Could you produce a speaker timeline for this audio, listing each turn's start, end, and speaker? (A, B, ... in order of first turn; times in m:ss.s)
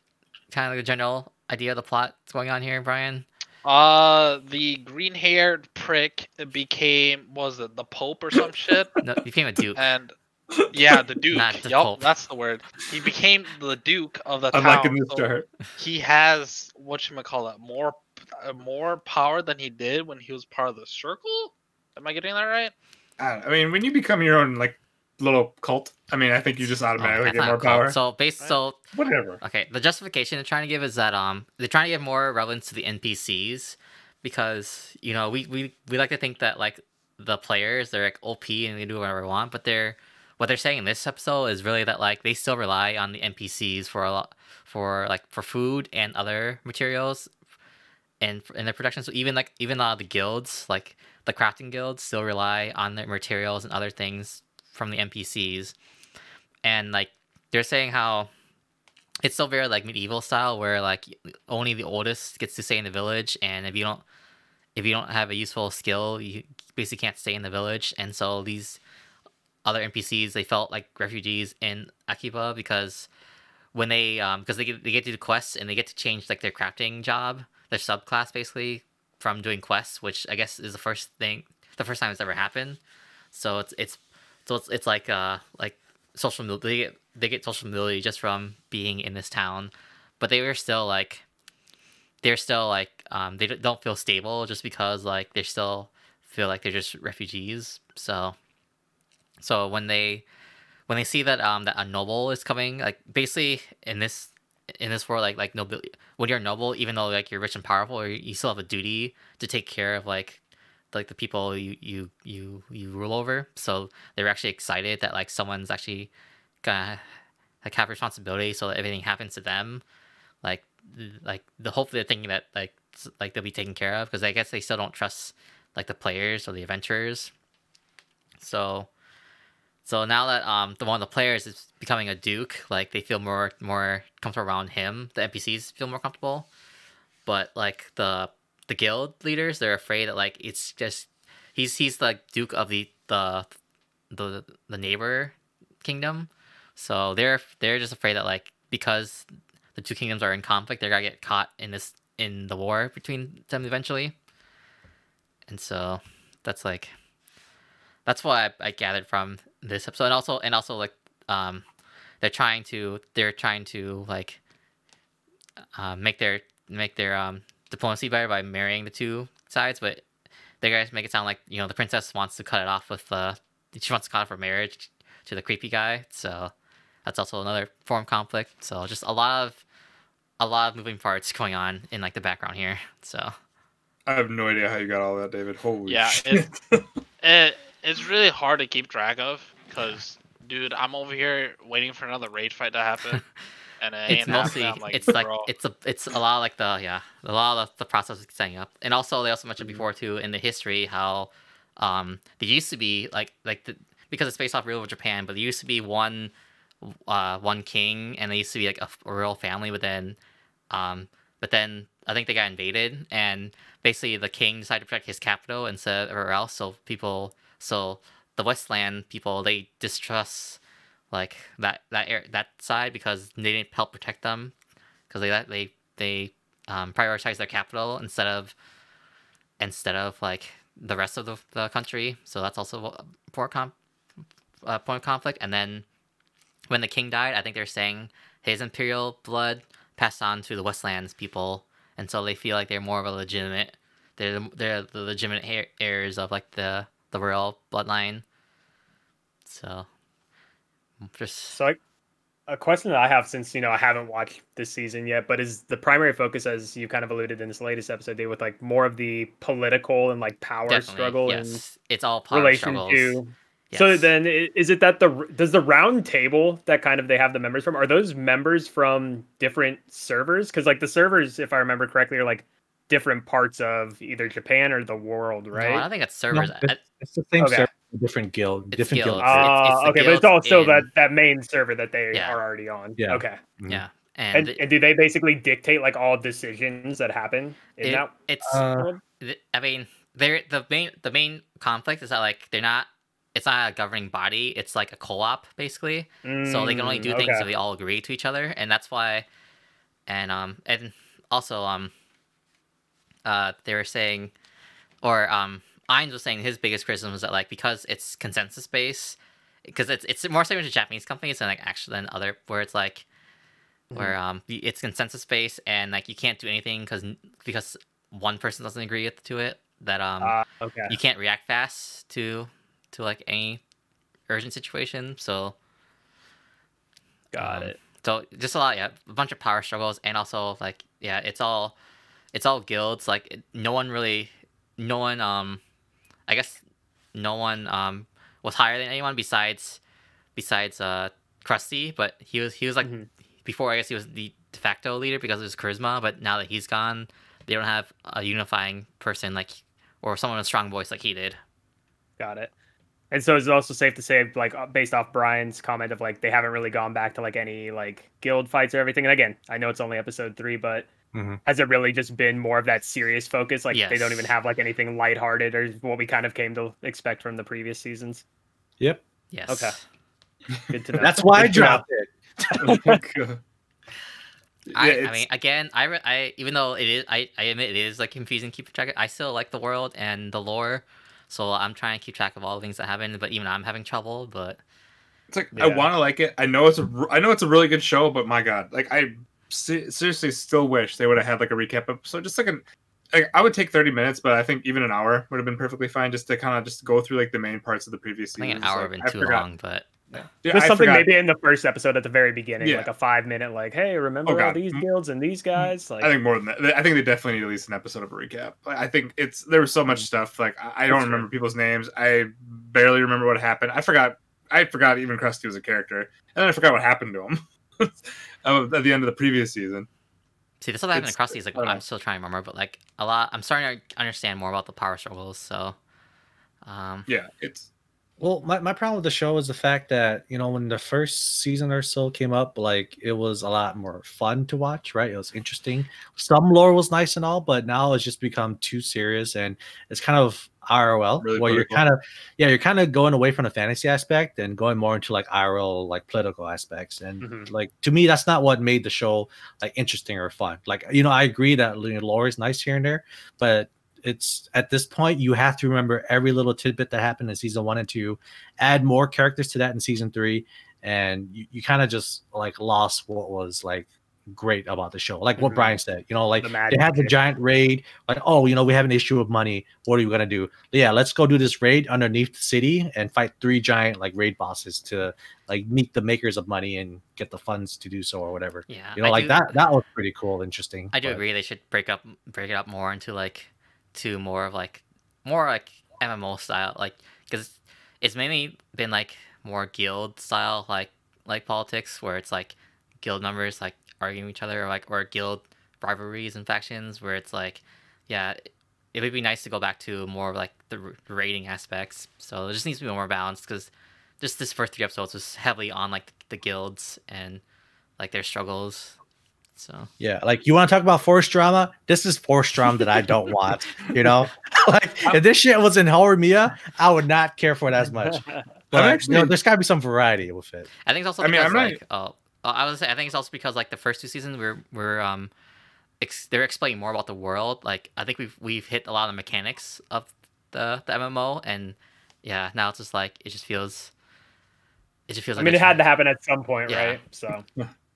0:00.5-0:03.3 A
0:03.6-0:09.0 B
0:09.0-0:09.8 A
0:09.8-0:10.2 B
0:10.7-0:22.7 B
0:11.3-0:12.1 A
0:14.5-0:15.5 C
0:23.2-0:28.0 C
0:27.0-0:28.8 A
0:28.9-0:29.4 C
0:29.4-0:47.3 A
0:48.2-0:55.8 A
0:56.6-0:58.3 A
0:59.2-1:04.0 A
1:04.8-1:08.8 A
1:09.6-1:13.1 A
1:13.7-1:22.8 A
1:23.3-1:31.2 A
1:32.2-1:38.4 A
1:39.4-1:40.2 A
1:40.9-1:50.4 A
1:50.9-1:56.1 A
1:56.6-1:57.0 A
1:57.6-1:59.8 A
2:00.4-2:07.3 A
2:08.4-2:08.9 A
2:09.8-2:16.5 A
2:17.3-2:23.5 A
2:24.1-2:34.2 A
2:35.5-2:36.9 A
2:38.1-2:41.6 A
2:42.2-2:44.4 A
2:45.8-2:50.0 A
2:50.6-2:56.5 A
2:57.0-2:59.6 A
3:00.4-3:03.3 A
3:04.1-3:06.8 C
3:05.9-3:06.5 B
3:07.2-3:13.2 B
3:13.8-3:15.5 B
3:14.1-3:30.2 A
3:14.2-3:14.5 C
3:30.7-3:40.6 A
3:41.1-3:44.6 A
3:45.1-3:48.6 A
3:49.6-3:53.8 A
3:54.7-3:55.9 A
3:56.7-4:08.2 A
4:09.5-4:09.9 A
4:11.1-4:11.6 A
4:11.5-4:11.8 D
4:12.5-4:21.6 D
4:20.7-4:23.2 A
4:22.3-4:35.9 D
4:23.7-4:24.1 A
4:35.5-4:36.8 A
4:36.3-4:39.5 E
4:37.4-4:37.7 D
4:38.7-4:40.9 A
4:39.2-4:43.4 D
4:42.1-4:42.4 A
4:43.0-4:43.8 E
4:43.7-4:44.6 A
4:44.3-4:49.0 D
4:47.8-4:48.6 A
4:48.5-4:48.9 E
4:49.2-4:59.3 A
4:56.2-4:57.5 D
5:00.1-5:01.9 A
5:03.2-5:04.3 A
5:05.0-5:13.1 A
5:13.9-5:14.2 D
5:13.9-5:20.4 A
5:20.2-5:21.0 D
5:20.9-5:23.6 A
5:24.3-5:25.6 A
5:27.3-5:27.8 D
5:27.4-5:31.8 A
5:32.3-5:35.6 A
5:36.3-5:36.6 A
5:37.2-5:39.8 A
5:40.4-5:42.9 A
5:42.8-5:43.1 D
5:43.4-5:51.4 A
5:52.2-5:52.5 D
5:53.1-6:00.9 D
6:01.1-6:01.4 E
6:01.4-6:08.2 D
6:03.7-6:04.3 A
6:09.3-6:09.8 A
6:09.5-6:09.8 D
6:10.7-6:11.8 D
6:11.0-6:12.1 E
6:12.5-6:13.0 D
6:12.6-6:13.4 C
6:14.7-6:15.2 C
6:14.8-6:24.6 A
6:25.3-6:39.5 C
6:38.4-6:39.9 A
6:40.2-6:41.1 C
6:40.5-6:46.2 D
6:42.6-6:42.9 C
6:44.2-6:44.8 C
6:45.6-6:59.9 C
6:50.9-6:51.3 D
7:00.6-7:05.8 A
7:00.9-7:01.8 C
7:06.6-7:07.1 A
7:07.1-7:07.7 C
7:08.2-8:01.2 E
7:21.2-7:21.8 C
7:27.2-7:27.5 D
7:45.4-7:45.8 D
7:46.4-7:47.1 D
7:58.7-7:59.6 A
8:00.9-8:18.4 A
8:18.9-8:27.4 A
8:28.0-8:29.0 A
8:29.6-8:29.9 A
8:30.0-8:40.7 E
8:38.7-8:39.3 C
8:40.9-8:45.3 A
8:41.2-8:41.8 C
8:46.0-8:53.9 A
8:55.1-8:55.8 A
8:55.4-8:57.4 D
8:56.7-8:57.0 A